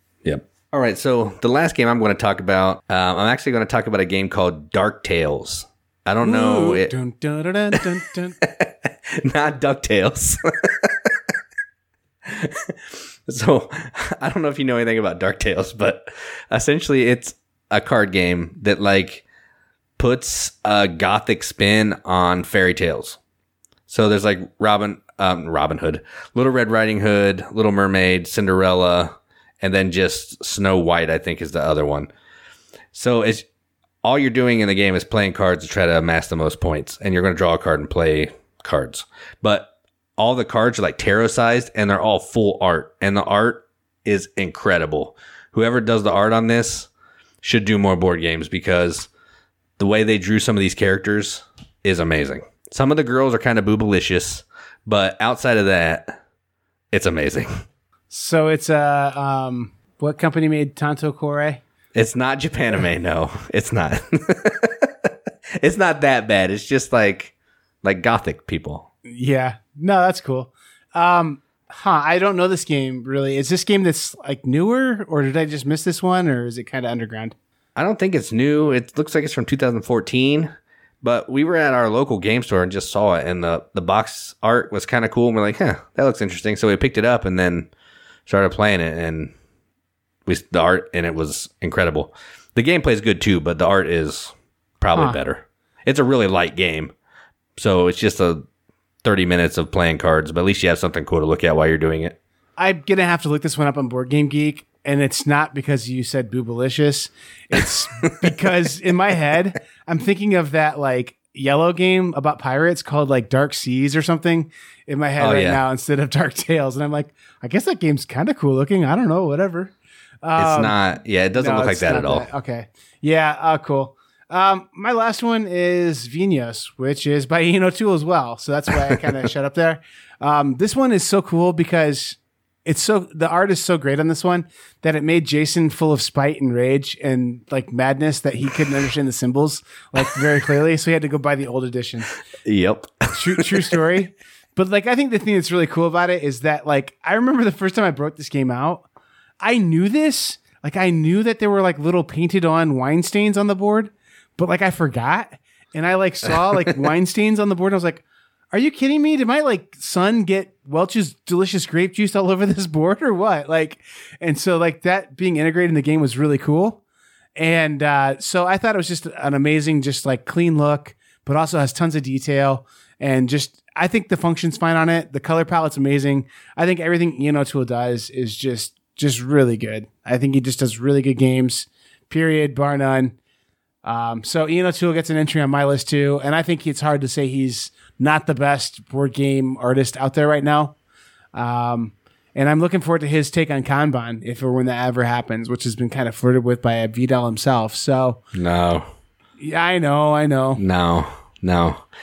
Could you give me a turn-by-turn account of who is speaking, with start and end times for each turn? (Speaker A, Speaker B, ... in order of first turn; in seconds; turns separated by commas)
Speaker A: 0.2-6.9, Speaker B: 6.2-8.4, Speaker A: 8.4-11.2, Speaker A: 12.2-19.2, Speaker A: 20.0-23.2, Speaker A: 23.9-32.1, Speaker A: 32.9-33.5, Speaker A: 34.0-46.9, Speaker A: 47.4-49.1, Speaker A: 49.8-56.2, Speaker A: 56.9-57.5, Speaker B: 58.1-61.6, Speaker A: 61.9-68.9, Speaker B: 69.0-77.3, Speaker A: 77.8-87.7, Speaker A: 88.2-89.3, Speaker A: 90.2-96.9, Speaker B: 94.9-95.2, Speaker A: 97.5-98.5, Speaker A: 99.0-102.2, Speaker B: 102.6-120.7, Speaker A: 108.0-108.3, Speaker A: 115.2-115.6, Speaker A: 120.4-122.2, Speaker B: 121.4-142.1, Speaker A: 142.4-143.7, Speaker B: 143.1-148.8, Speaker B: 149.4-166.8, Speaker B: 167.3-183.2, Speaker B: 183.8-190.7, Speaker B: 191.3-198.2, Speaker A: 198.3-198.8, Speaker B: 199.4-200.6, Speaker A: 200.6-201.8